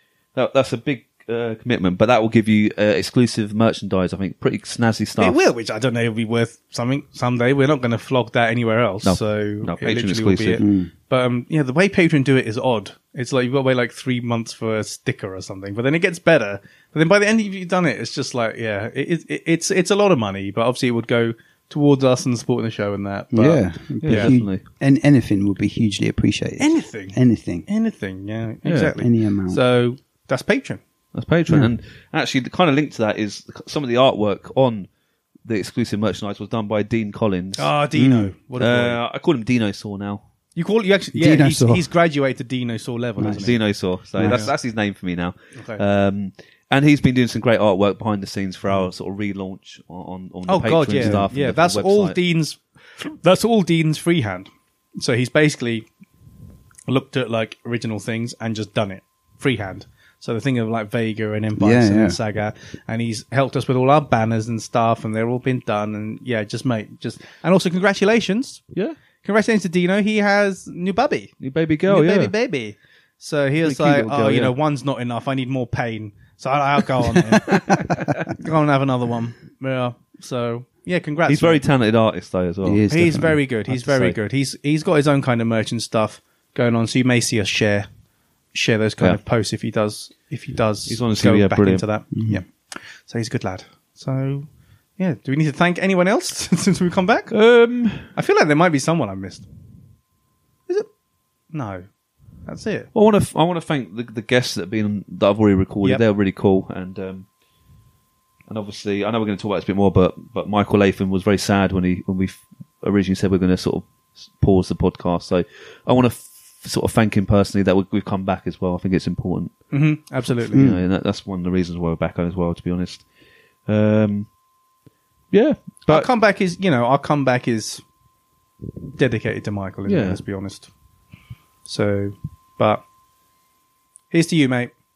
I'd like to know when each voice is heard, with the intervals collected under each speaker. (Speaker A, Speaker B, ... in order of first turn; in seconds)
Speaker A: 0.3-5.4, 9.0-10.6, 24.0-24.6, 28.6-28.9, 31.1-34.9, 35.4-37.7, 38.6-40.2, 43.3-52.2, 71.4-72.3, 73.6-74.5, 77.3-78.2, 81.3-82.8, 90.9-91.8, 97.3-98.1, 102.9-107.2, 108.5-119.5, 120.5-123.0, 123.7-124.3, 125.3-126.1, 129.9-130.2
Speaker B: 5.2-24.3, 26.6-30.8, 37.6-39.0, 40.5-43.6, 44.2-44.5, 50.5-55.9, 56.9-68.6, 69.2-71.3, 71.9-81.6, 82.9-87.9, 88.5-97.3, 98.1-99.5, 101.5-101.9, 102.4-102.9, 119.7-120.6, 125.8-127.8, 128.9-130.7, 131.7-132.8, 134.1-134.7
Speaker C: 10.6-10.9, 23.3-27.7, 29.0-29.6, 38.0-38.3, 41.1-41.9, 43.2-43.4, 44.2-44.5, 51.0-51.3, 61.6-62.2, 82.6-84.1, 92.2-92.4, 120.5-120.8